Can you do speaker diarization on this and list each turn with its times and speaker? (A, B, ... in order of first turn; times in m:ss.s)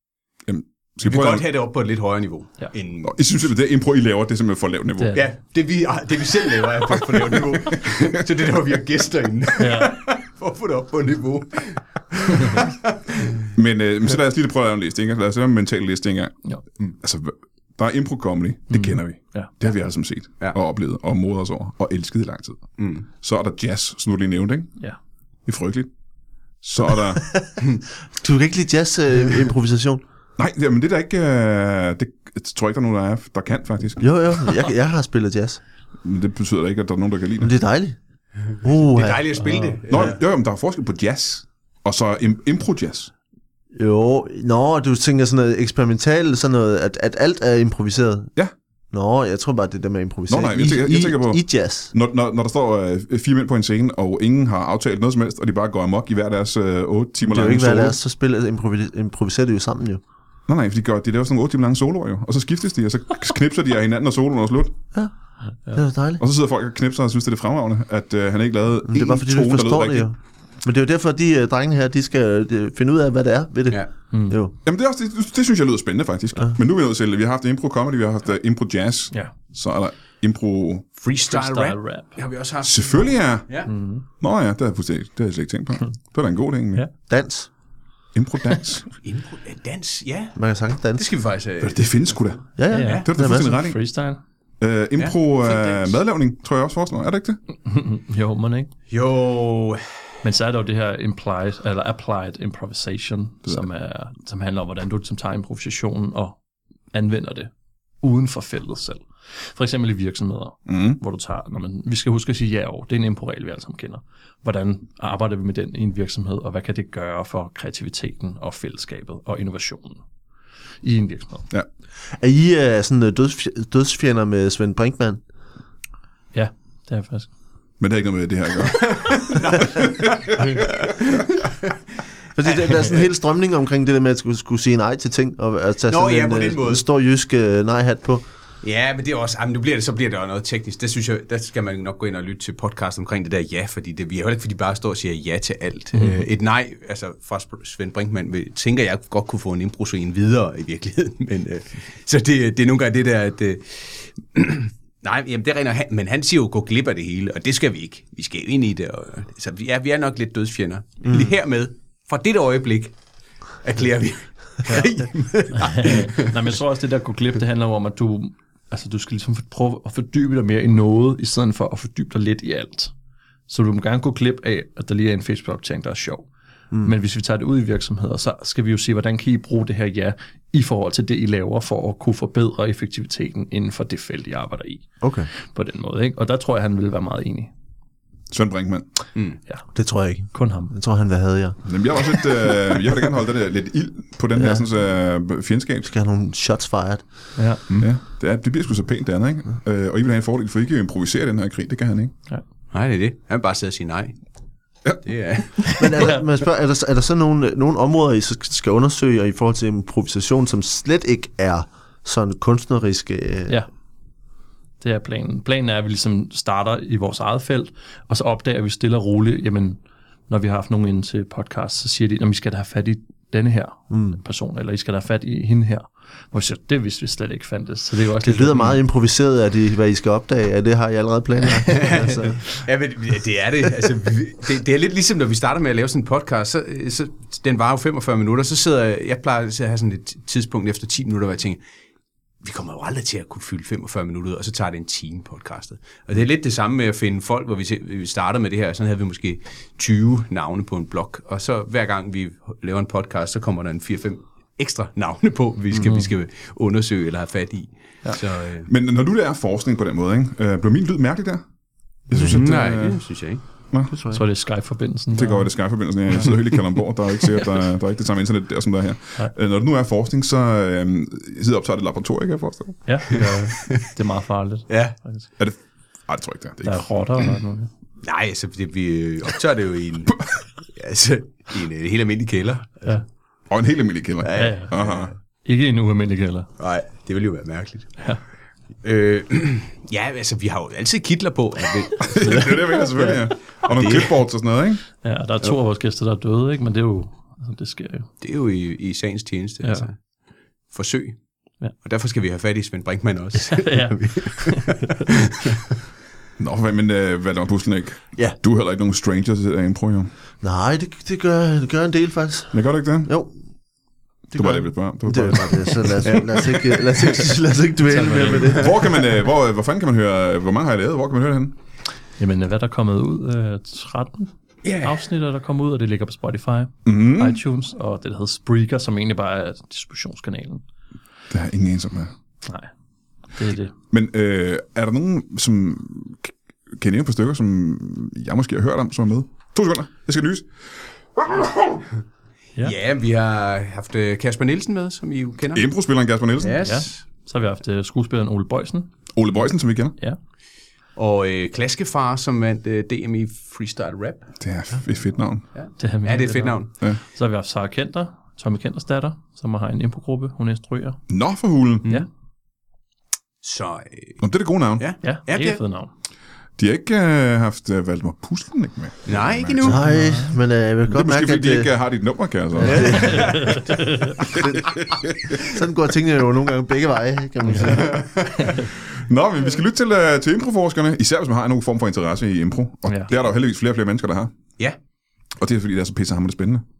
0:00.4-0:01.5 A
0:01.0-0:03.1 B
0:03.0-0:05.2 A
0:05.0-0:05.2 C
0:05.1-0:13.5 B
0:09.6-0:10.0 C
0:13.5-0:16.3 A
0:17.0-0:24.7 A
0:18.7-0:19.5 C
0:22.8-0:23.0 B
0:25.4-0:25.9 A
0:26.6-0:27.3 A
0:27.2-0:27.4 D
0:28.2-0:30.0 D
0:30.4-0:34.4 A
0:34.0-0:35.6 D
0:36.0-0:37.5 A
0:37.4-0:38.0 D
0:38.6-0:39.2 D
0:38.9-0:40.2 B
0:39.3-0:39.8 C
0:39.9-0:43.1 A
0:43.7-0:48.3 D
0:48.9-0:51.9 D
0:50.3-0:58.0 A
0:57.2-1:00.0 D
1:00.5-1:04.7 A
1:05.7-1:06.2 D
1:06.2-1:10.1 A
1:08.9-1:14.5 D
1:14.1-1:14.4 C
1:14.6-1:20.9 A
1:21.0-1:23.7 B
1:21.3-1:22.2 C
1:22.6-1:23.7 A
1:23.7-1:24.0 C
1:24.2-1:26.8 A
1:27.1-1:27.5 D
1:28.1-1:28.9 A
1:29.0-1:30.4 B
1:30.4-1:31.0 D
1:30.9-1:33.1 B
1:31.6-1:32.5 A
1:32.6-1:33.6 D
1:32.7-1:34.2 C
1:33.0-1:33.8 A
1:34.6-1:37.4 A
1:35.0-1:36.0 B
1:37.6-1:38.7 C
1:38.9-1:39.8 B
1:40.2-1:46.4 C
1:46.9-1:47.5 C
1:48.0-2:00.0 C
1:50.7-1:51.0 A
2:00.8-2:01.5 C
2:02.2-2:05.2 D
2:06.3-2:07.3 C
2:07.8-2:10.6 A
2:08.7-2:11.8 B
2:12.4-2:18.2 D
2:12.4-2:13.0 B
2:15.9-2:16.8 B
2:18.6-2:42.9 B
2:25.9-2:26.3 C
2:41.0-2:41.4 D
2:43.6-2:46.3 B
2:44.7-2:45.0 C
2:45.5-2:52.9 C
2:53.5-2:56.3 C
2:56.8-3:04.9 C
3:05.0-3:05.3 D
3:05.4-3:07.5 C
3:08.3-3:08.9 A
3:09.7-3:12.3 D
3:10.3-3:10.7 C
3:11.6-3:15.9 A
3:14.4-3:14.6 D
3:15.8-3:17.0 D
3:17.4-3:17.6 C
3:17.8-3:22.1 A
3:22.7-3:24.2 B
3:25.0-3:25.9 B
3:25.7-3:33.6 D
3:34.8-3:48.8 C
3:43.9-3:44.2 D
3:48.2-3:52.5 D
3:51.7-4:01.6 B
4:02.4-4:18.7 B
4:18.7-4:21.4 A
4:22.1-4:23.0 A
4:22.1-4:22.4 D
4:22.2-4:23.4 B
4:23.9-4:24.2 D
4:24.1-4:25.5 C
4:25.1-4:32.8 A
4:32.8-4:35.2 C
4:34.7-4:35.0 B
4:35.4-4:36.8 A
4:36.6-4:37.7 C
4:38.0-4:42.9 B
4:43.5-4:45.1 A
4:44.2-4:45.1 B
4:44.4-4:44.7 C
4:45.4-4:46.5 C
4:46.6-4:48.0 B
4:48.8-4:52.8 B
4:52.0-4:54.8 A
4:53.7-4:54.1 B
4:55.0-4:58.1 C
4:58.2-5:00.0 B
4:59.6-4:59.9 C
5:00.7-5:01.2 B
5:01.7-5:05.6 B
5:03.4-5:04.9 C
5:06.4-5:10.1 A
5:10.4-5:13.3 D
5:12.5-5:13.1 A
5:14.3-5:19.0 D
5:14.3-5:16.6 A
5:17.9-5:18.6 C
5:18.5-5:21.6 A
5:22.2-5:24.3 C
5:24.6-5:25.0 B
5:24.8-5:30.6 C
5:26.8-5:27.4 A
5:31.3-5:32.1 A
5:32.4-5:32.7 C
5:33.3-5:33.7 C
5:33.9-5:40.5 A
5:41.2-5:41.8 A
5:42.6-5:45.6 B
5:45.5-5:46.6 A
5:46.4-5:47.0 B
5:46.6-5:48.9 C
5:49.1-5:50.0 A
5:51.0-5:54.3 B
5:54.4-5:55.4 A
5:55.5-5:56.7 B
5:55.8-6:01.0 C
6:01.1-6:01.9 A
6:03.4-6:04.2 B
6:04.2-6:04.9 A
6:04.8-6:05.6 B
6:05.0-6:05.9 C
6:06.6-6:09.8 A
6:09.1-6:09.9 B
6:09.6-6:11.7 D
6:09.8-6:10.3 C
6:10.9-6:13.0 A
6:12.6-6:18.0 D
6:12.6-6:14.2 C
6:12.7-6:13.6 B
6:17.4-6:17.8 C
6:17.6-6:18.6 B
6:18.9-6:24.3 A
6:25.4-6:26.6 A